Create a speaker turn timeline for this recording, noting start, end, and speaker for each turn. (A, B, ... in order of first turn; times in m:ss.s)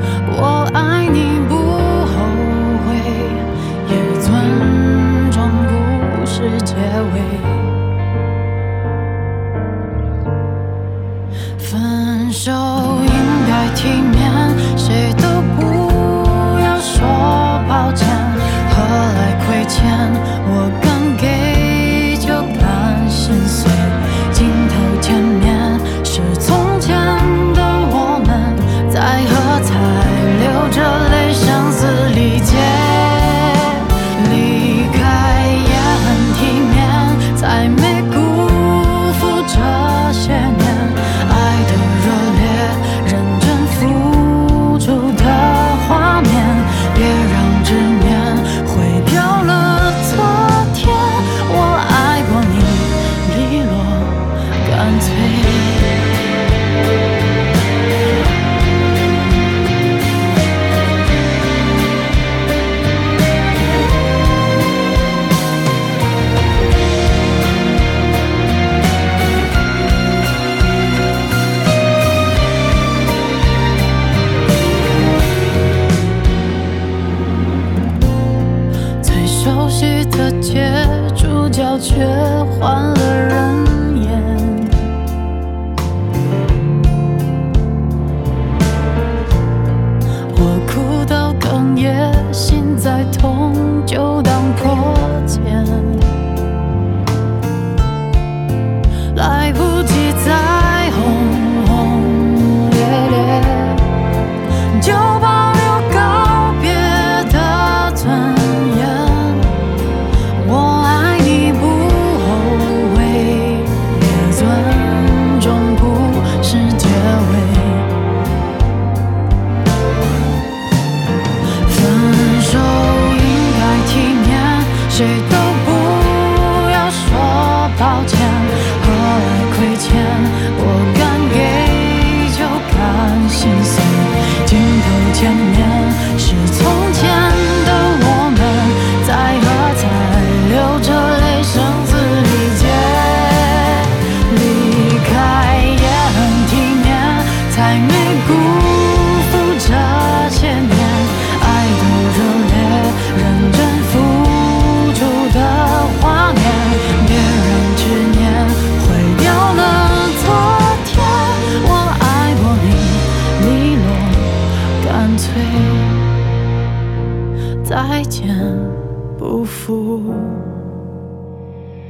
0:00.2-0:07.8 A
0:11.6-0:56.1 A
1:19.0-1:24.9 A
1:30.3-1:36.2 A
1:39.1-1:44.0 A
1:44.7-1:58.0 A
2:01.6-2:46.2 A
2:47.6-2:50.6 A